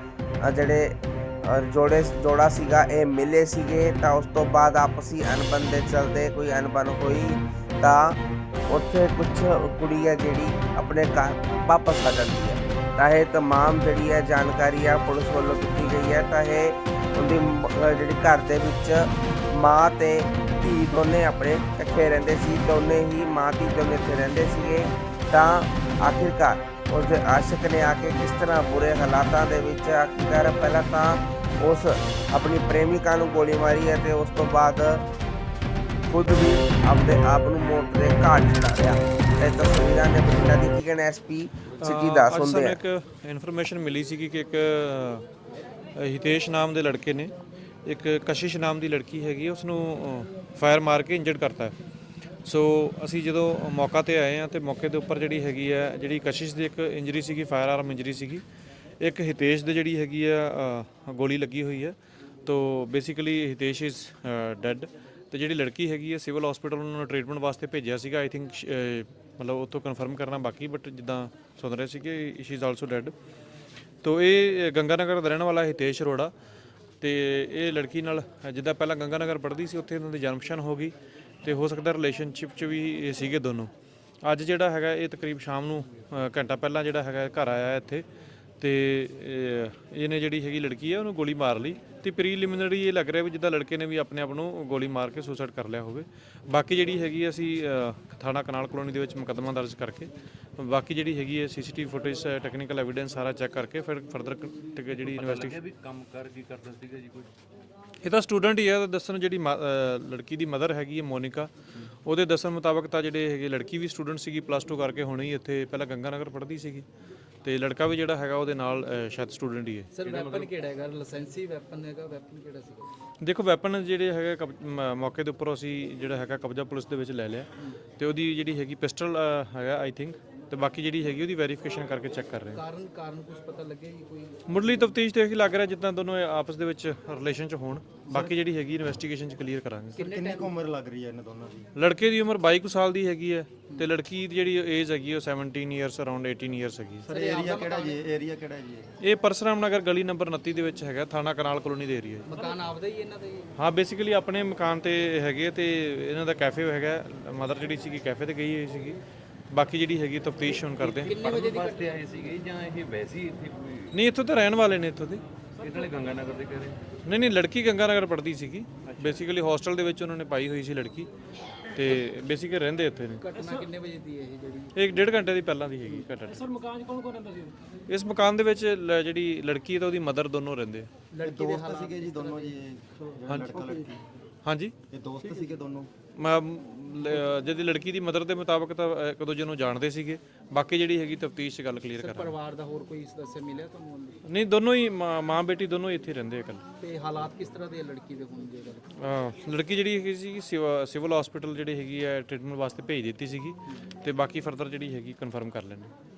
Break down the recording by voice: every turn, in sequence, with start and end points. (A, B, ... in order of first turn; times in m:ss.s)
0:00.4-0:01.0 A
0:01.5-0:08.2 A
0:08.7-0:35.0 A
0:36.1-0:42.8 A
0:41.8-0:45.2 B
0:46.0-0:47.3 B
0:47.8-0:51.7 B
0:52.4-0:58.4 B
0:59.0-1:13.1 B
1:14.0-1:16.3 B
1:17.0-1:23.7 B
1:24.2-1:28.0 B
1:28.6-1:45.6 B
1:45.0-1:47.3 C
1:48.0-1:51.5 B
1:52.0-1:56.8 B
1:57.4-1:59.9 B
1:59.9-2:02.9 D
2:00.0-2:00.5 C
2:03.2-2:12.6 B
2:12.5-2:14.6 D
2:14.5-2:20.0 B
2:20.0-2:20.5 D
2:20.0-2:21.7 E
2:21.8-2:27.1 B
2:27.0-2:28.9 E
2:27.1-2:28.0 D
2:29.0-2:32.3 B
2:32.3-2:33.5 D
2:33.6-2:39.0 B
2:39.5-2:41.2 B
2:40.8-2:42.4 D
2:41.0-2:44.0 C
2:43.9-2:45.2 B
2:45.6-2:46.8 C
2:47.0-2:51.1 B
2:48.8-2:49.3 C
2:51.8-2:53.2 B
2:53.2-2:54.8 D
2:54.8-2:56.6 B
2:57.9-3:00.9 B
3:01.1-3:02.6 D
3:01.2-3:04.0 E
3:03.3-3:03.6 B
3:04.4-3:04.7 B
3:04.9-3:05.9 E
3:06.2-3:12.4 B
3:12.0-3:14.2 D
3:14.3-3:16.6 B
3:16.8-3:18.8 D
3:19.0-3:25.9 B